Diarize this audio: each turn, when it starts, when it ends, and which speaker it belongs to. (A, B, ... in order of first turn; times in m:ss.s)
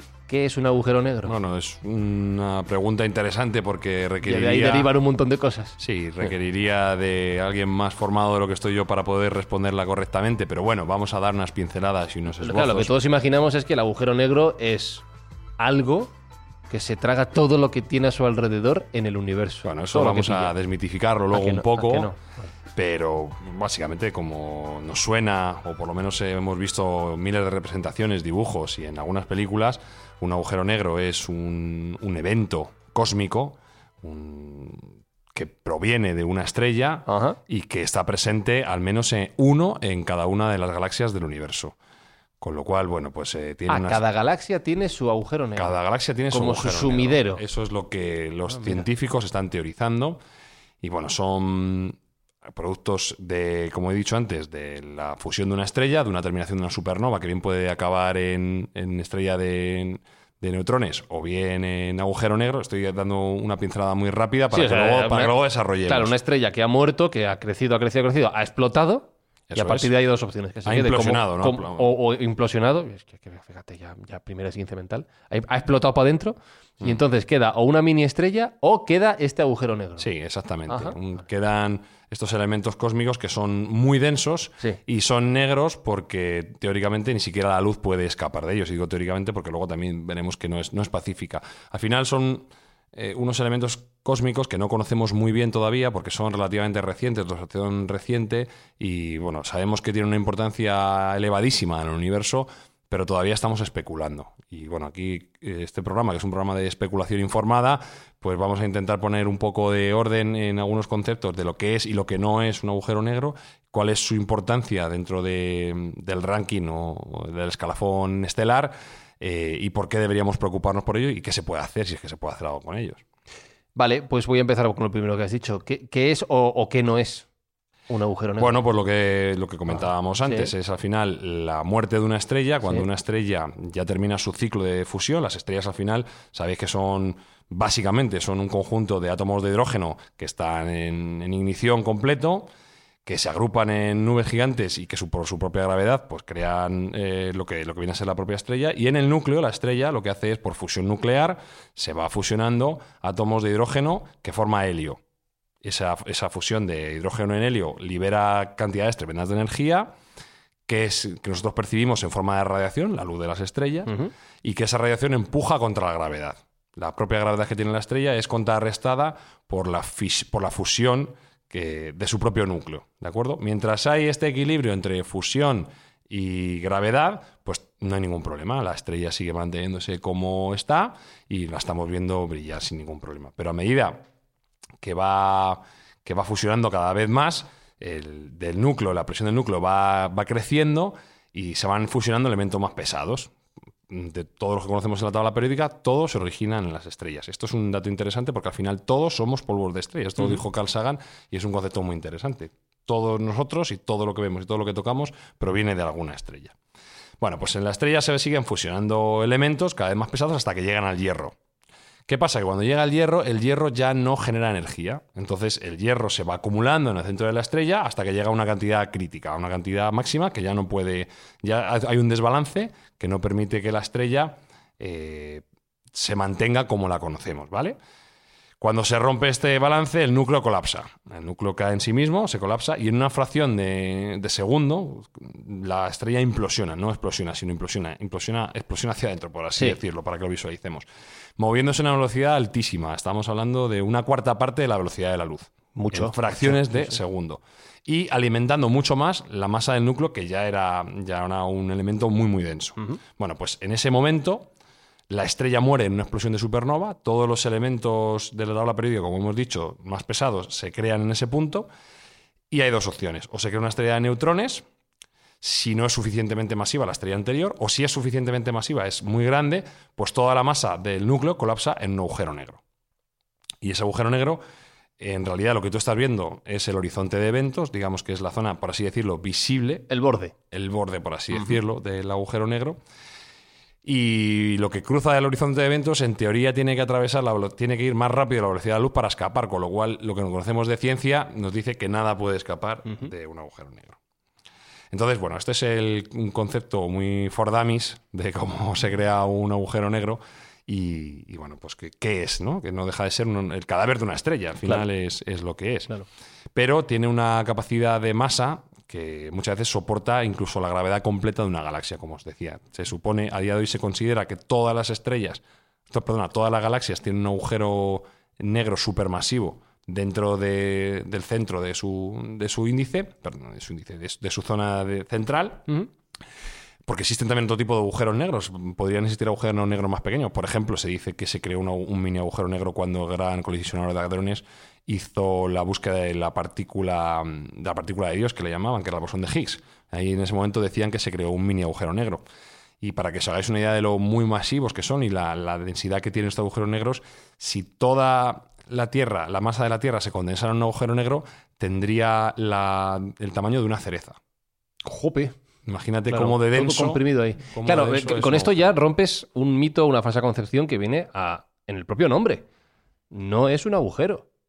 0:00.3-0:01.4 A
0:01.2-0:04.9 B
0:04.2-0:06.3 A
0:05.8-0:13.0 B
0:12.4-0:15.0 A
0:15.6-0:16.1 A
0:16.7-0:20.5 A
0:19.6-0:22.1 B
0:21.3-0:22.5 A
0:22.7-0:41.8 B
0:37.1-0:37.4 A
0:42.4-0:44.0 B
0:43.7-0:45.8 A
0:45.6-0:50.2 B
0:46.3-0:47.4 A
0:48.5-0:48.8 A
0:50.8-1:06.1 B
1:04.5-1:05.3 A
1:05.9-1:20.1 A
1:09.5-1:09.9 B
1:10.6-1:11.9 B
1:20.0-2:03.0 B
1:20.7-1:21.0 A
2:03.8-2:07.2 A
2:07.9-2:08.6 A
2:08.4-2:22.5 B
2:09.7-2:10.5 A
2:23.0-2:35.0 B
2:35.6-2:39.9 B
2:40.7-3:04.0 B
2:43.9-2:44.1 A
3:04.8-3:13.3 B
3:13.9-3:26.5 B
3:27.2-3:31.4 B
3:32.1-3:47.8 B
3:48.6-4:00.9 B
4:01.4-4:14.5 B
4:05.7-4:07.0 A
4:15.1-4:21.7 B
4:22.5-4:24.6 B
4:25.4-4:32.6 B
4:33.6-4:34.4 B
4:35.0-4:39.9 B
4:39.9-4:40.3 A
4:40.5-4:42.8 B
4:43.8-4:54.0 B
4:54.9-5:05.9 B
5:06.5-5:25.7 B
5:26.8-5:42.2 B
5:42.8-5:54.2 B
5:54.8-5:55.3 A
5:55.6-5:58.7 B
5:56.1-6:02.4 A
6:03.1-6:04.2 A